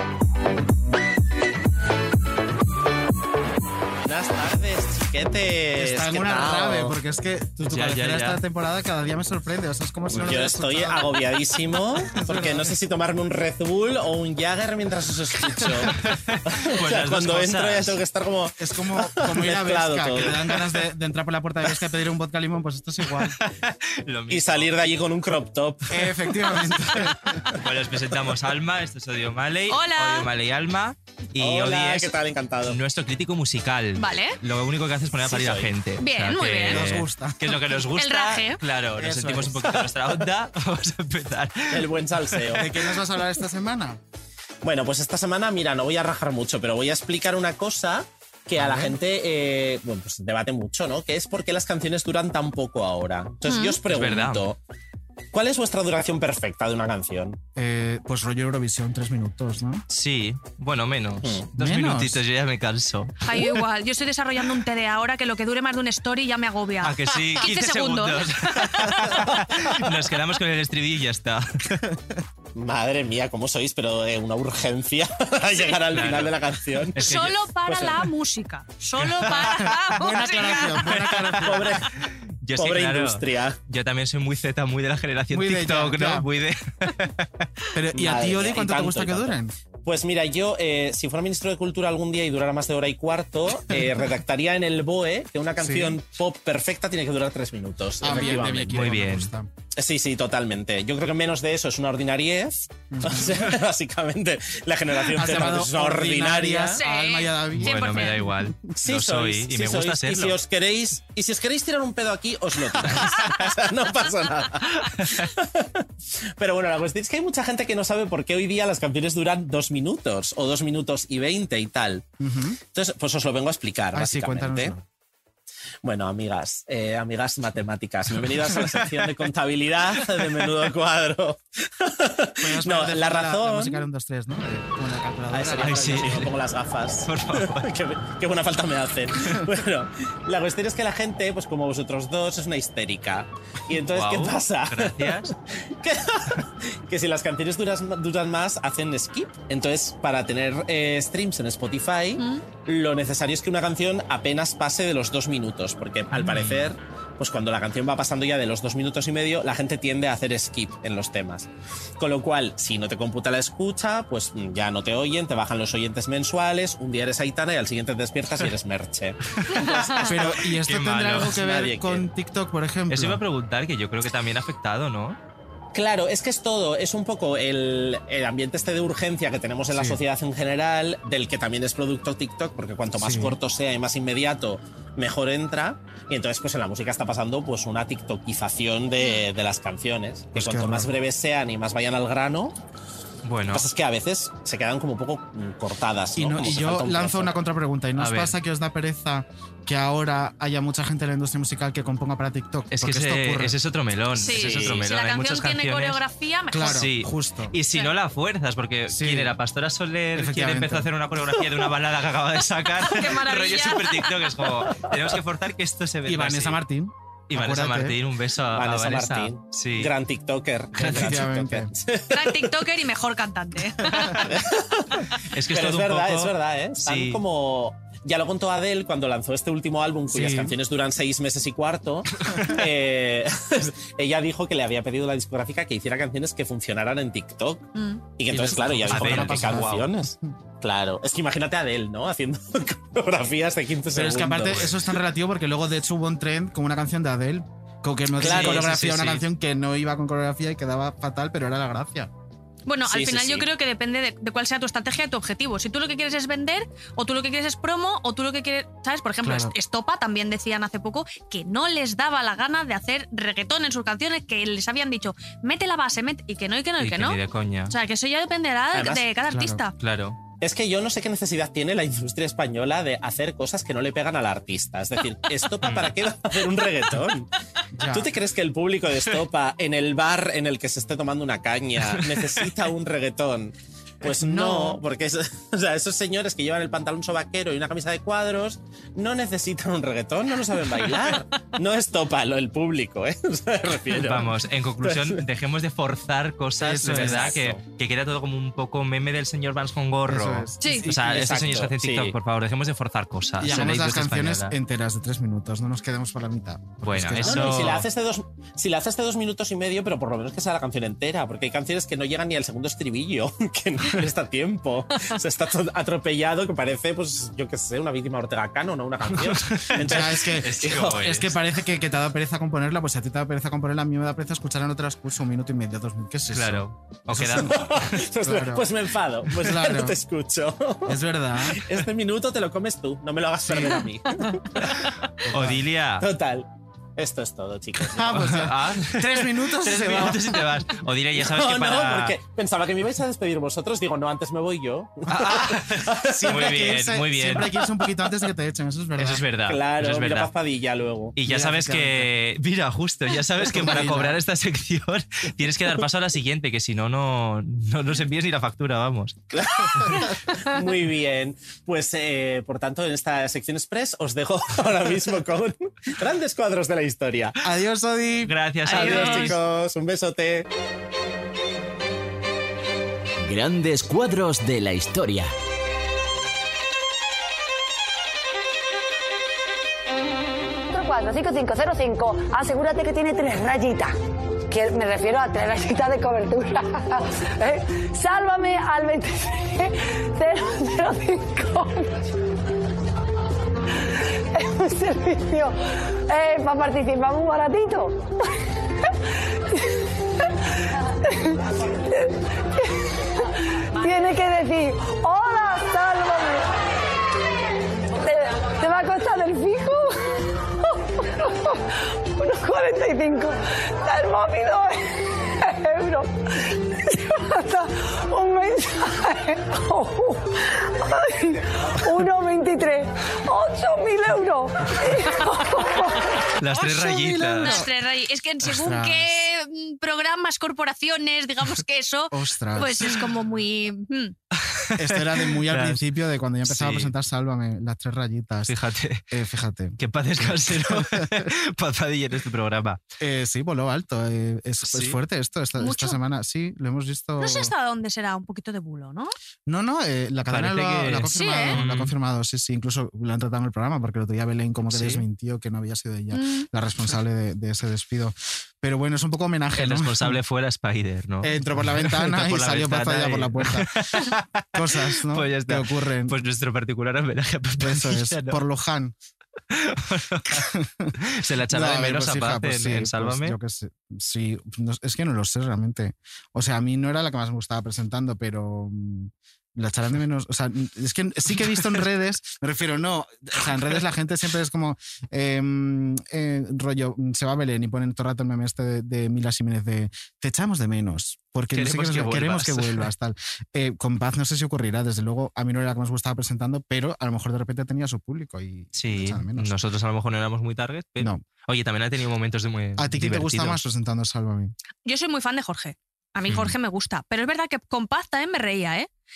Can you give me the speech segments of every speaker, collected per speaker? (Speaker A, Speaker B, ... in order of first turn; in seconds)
Speaker A: 4.0-7.0, 10.1-20.7, 24.3-26.1, 31.4-32.8, 35.2-35.8, 41.7-42.8, 44.6-54.6, 55.3-57.4, 72.5-77.1, 77.7-78.0, 81.4-81.8, 82.5-83.6, 87.9-98.9, 99.8-106.8, 108.8-115.8, 116.4-122.0, 122.7-124.7, 125.8-133.8, 135.3-161.5, 162.0-170.4, 171.2-172.1, 175.7-192.5, 193.5-197.4, 204.3-204.8, 214.8-215.2, 218.5-222.7, 224.3-244.8, 248.2-248.9, 252.8-253.5, 268.7-269.1, 270.4-277.3, 277.9-295.2, 296.8-297.6, 300.8-302.1, 307.2-321.0, 327.4-334.6, 336.0-338.3, 341.1-346.7, 349.4-351.2, 359.3-367.4, 368.7-370.5
Speaker B: 5.8-11.2, 12.1-12.7, 18.6-23.4, 25.9-27.4, 36.6-37.6, 39.0-39.9, 42.6-44.0, 48.6-48.9, 57.5-59.8, 61.5-62.2, 71.8-72.1, 79.5-81.7, 85.3-86.3, 87.7-89.5, 95.6-95.9, 98.0-99.5, 102.9-103.5, 105.1-108.8, 122.2-122.6, 123.9-124.8, 132.4-136.2, 170.0-173.2, 179.7-180.0, 183.0-183.4, 190.3-190.9, 196.2-203.6, 206.5-207.6, 208.9-209.3, 210.1-210.9, 216.1-218.0, 220.8-221.7, 230.1-230.5, 238.3-240.3, 243.9-252.1, 259.2-259.5, 269.3-269.6, 277.7-278.1, 284.1-284.8, 296.6-297.4, 300.1-300.6, 303.4-307.7, 319.8-328.7, 329.3-330.0, 330.9-331.7, 333.5-333.8, 335.2-335.6, 337.9-340.5, 346.0-349.2, 351.2-352.1, 353.4-354.2, 367.4-368.3, 427.3-427.7, 428.4-429.2, 432.1-433.0, 434.8-438.5, 439.1-441.3, 443.0-447.5, 449.4-460.2, 461.2-466.2, 467.6-468.9, 470.3-470.9, 471.5-499.6, 502.8-504.5
Speaker C: 7.6-8.4, 15.7-18.0, 23.3-24.7, 26.4-42.8, 53.9-54.4, 59.9-63.3, 66.8-71.8, 75.9-76.4, 76.9-77.5, 79.0-87.5, 98.7-99.3, 107.5-110.4, 114.8-115.3, 128.2-129.1, 130.2-130.4, 135.4-136.3, 137.0-137.7, 143.9-145.3, 156.1-156.7, 169.4-171.4, 172.9-175.2, 193.2-193.7, 198.0-198.3, 202.7-206.0, 206.6-216.6, 217.3-219.9, 220.8-221.3, 223.9-224.2, 225.2-227.2, 232.2-232.6, 238.9-239.9, 244.5-244.8, 248.2-249.2, 266.8-267.7, 269.8-270.2, 275.6-275.9, 281.9-282.4, 293.9-304.5, 306.8-307.9, 319.1-321.4, 326.3-327.9, 334.6-336.1, 338.0-342.2, 345.1-347.6, 349.0-350.3, 351.1-359.2, 368.2-369.4, 426.4-427.6, 434.3-435.8, 436.4-436.9, 438.5-439.0, 439.8-442.8, 444.6-445.0, 450.3-451.9, 454.7-455.0, 459.5-468.4, 469.5-473.4, 491.5-492.9, 498.7-503.6, 506.3-506.5
Speaker D: 29.7-30.3, 34.0-34.4, 36.0-36.9, 37.9-38.6, 53.5-53.8, 63.2-69.3, 77.0-80.9, 106.7-108.2, 152.2-152.4, 204.2-206.9, 212.8-214.2, 222.1-224.3, 237.7-238.0, 252.7-269.7, 300.6-300.9, 368.7-369.3, 426.5-434.1, 445.6-446.0, 447.2-449.1, 451.1-451.6, 456.1-456.5, 504.8-508.9
Speaker E: 373.2-375.3
Speaker F: 380.7-383.9, 384.5-392.1, 394.3-398.1, 399.5-399.8, 401.0-406.5, 407.9-426.2